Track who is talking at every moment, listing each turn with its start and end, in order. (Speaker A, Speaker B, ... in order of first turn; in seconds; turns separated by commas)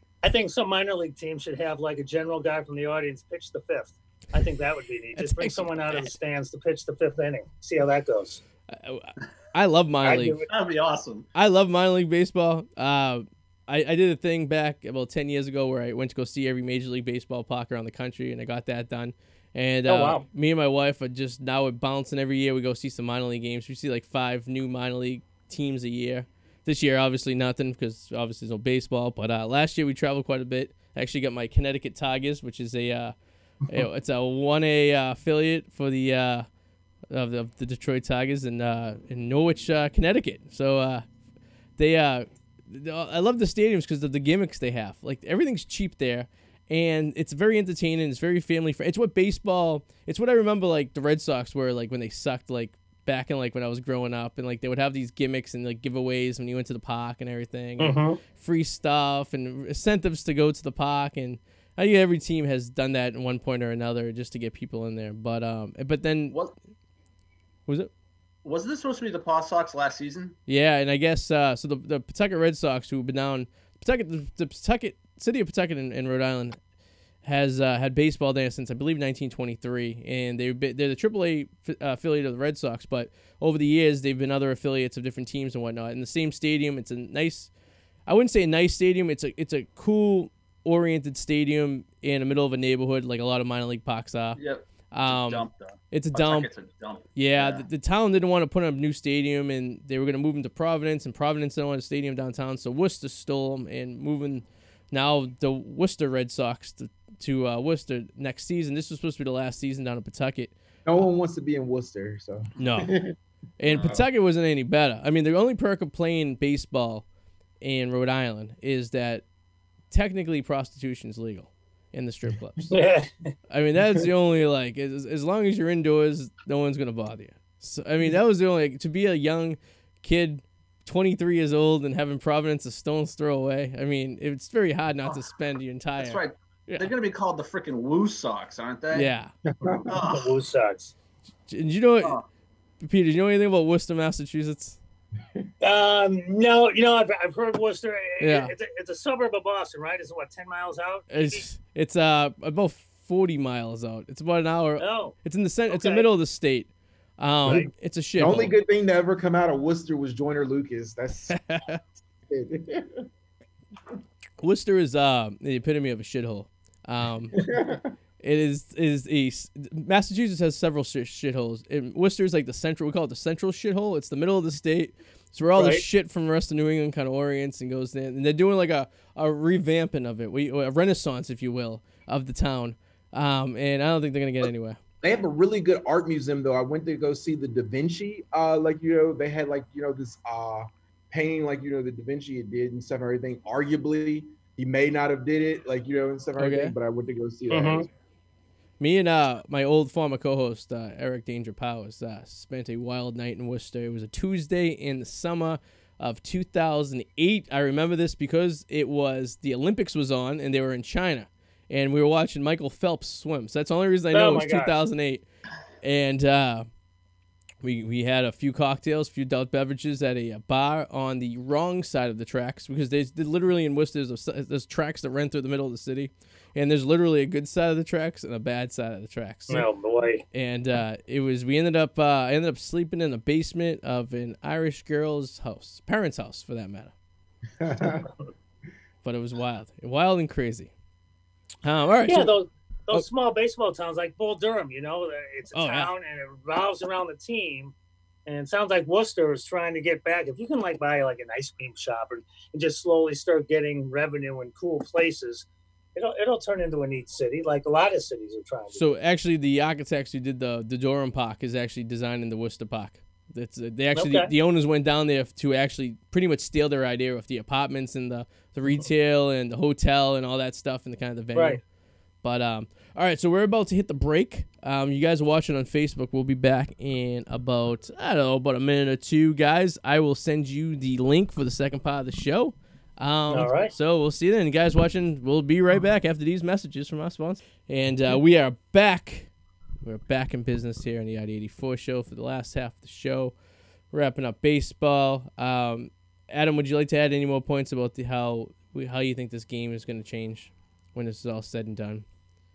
Speaker A: 0.2-8.4, Speaker B: 5.2-6.1, Speaker B: 8.7-10.4, Speaker A: 10.0-10.4, Speaker C: 10.5-11.3, Speaker B: 11.3-33.1, Speaker A: 19.9-20.2, Speaker B: 33.7-36.5, Speaker B: 37.1-41.0, Speaker B: 41.8-66.4, Speaker A: 57.8-58.2, Speaker C: 68.4-70.3, Speaker B: 70.5-76.6, Speaker B: 77.2-87.5, Speaker B: 88.1-94.4, Speaker C: 94.3-97.6, Speaker B: 94.9-96.5, Speaker B: 97.1-110.5, Speaker D: 110.8-113.1, Speaker B: 112.6-113.0, Speaker B: 113.6-117.0, Speaker D: 113.7-114.0, Speaker B: 117.6-119.2, Speaker B: 119.9-122.7, Speaker A: 122.7-123.3, Speaker B: 123.5-136.9, Speaker C: 136.0-139.1, Speaker B: 138.9-139.3, Speaker D: 139.6-139.9, Speaker A: 139.7-140.9, Speaker C: 139.9-140.3, Speaker B: 141.5-142.2, Speaker B: 142.8-144.8, Speaker A: 145.6-151.4, Speaker B: 148.2-148.5, Speaker B: 151.1-158.6, Speaker A: 154.8-155.1, Speaker A: 155.7-156.1, Speaker D: 158.2-161.4, Speaker B: 161.3-161.8, Speaker D: 162.2-163.1, Speaker B: 164.4-167.4, Speaker D: 167.3-167.9, Speaker B: 168.2-184.8, Speaker A: 175.5-175.8, Speaker D: 185.0-197.9, Speaker B: 196.4-196.7, Speaker A: 197.5-197.8, Speaker B: 198.8-215.2, Speaker A: 214.1-214.7, Speaker B: 215.8-216.7, Speaker B: 217.6-229.7, Speaker A: 229.5-230.2, Speaker B: 230.3-236.9, Speaker D: 237.6-238.1, Speaker B: 239.0-240.7, Speaker B: 241.6-242.3, Speaker A: 242.1-247.7, Speaker B: 245.5-245.9, Speaker A: 248.2-258.9, Speaker B: 258.7-271.6, Speaker A: 263.9-264.3, Speaker A: 271.3-271.6, Speaker B: 272.2-289.3, Speaker A: 283.3-283.7, Speaker B: 289.8-293.3, Speaker B: 293.9-302.0